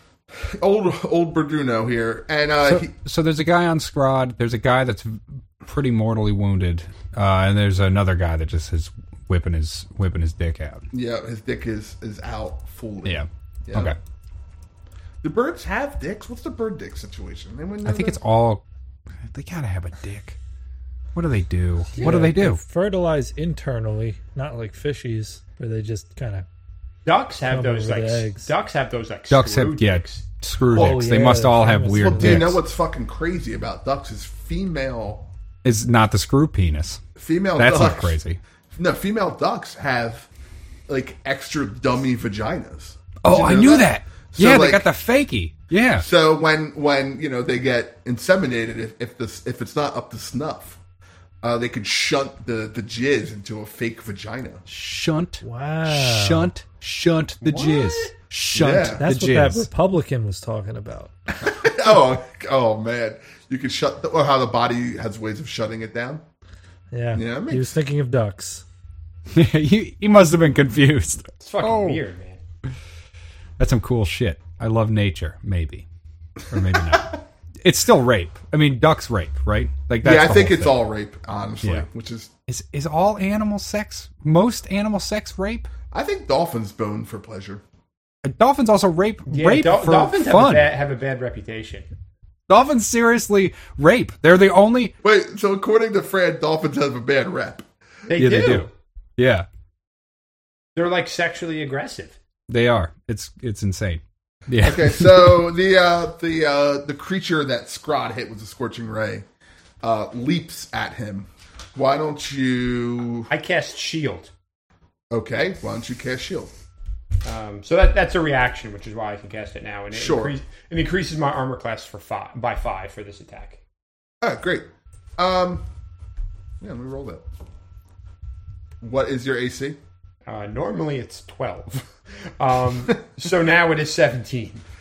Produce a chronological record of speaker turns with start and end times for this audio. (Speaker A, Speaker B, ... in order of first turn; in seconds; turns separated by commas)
Speaker A: 0.3-2.9, Speaker B: 2.6-10.8, Speaker A: 10.9-13.9, Speaker B: 13.0-14.0, Speaker A: 15.2-18.2, Speaker B: 17.8-18.6, Speaker B: 19.2-20.4, Speaker B: 21.1-22.6, Speaker C: 21.9-26.5, Speaker D: 27.1-30.2, Speaker C: 27.5-28.5, Speaker B: 29.3-32.6, Speaker C: 30.7-32.5, Speaker A: 30.7-31.0, Speaker A: 31.9-35.3, Speaker B: 35.6-37.0, Speaker A: 37.1-38.2, Speaker B: 37.5-38.4, Speaker A: 38.7-40.3, Speaker A: 40.9-44.9, Speaker B: 43.2-46.0, Speaker A: 46.0-50.8, Speaker A: 51.4-54.6, Speaker B: 54.7-59.7, Speaker C: 55.4-56.5, Speaker D: 57.4-58.1, Speaker A: 58.5-59.0, Speaker C: 59.0-61.1, Speaker A: 61.4-66.2, Speaker C: 66.9-68.6, Speaker A: 67.1-67.7, Speaker B: 69.3-72.0, Speaker D: 71.4-72.4, Speaker B: 73.6-75.9, Speaker B: 76.5-80.7, Speaker A: 80.0-82.3, Speaker B: 82.5-85.7, Speaker A: 85.9-87.6, Speaker B: 88.2-90.7, Speaker D: 89.3-91.9, Speaker B: 92.5-94.9, Speaker A: 95.0-97.7, Speaker D: 98.1-98.7, Speaker B: 98.2-99.5, Speaker D: 100.7-102.2, Speaker B: 102.5-105.4, Speaker A: 104.6-109.2, Speaker A: 109.8-113.3, Speaker D: 113.3-114.3, Speaker A: 115.1-116.5, Speaker D: 117.2-123.6, Speaker A: 119.9-120.3, Speaker A: 124.2-125.6, Speaker A: 126.6-127.2, Speaker A: 128.8-129.8, Speaker D: 130.2-134.6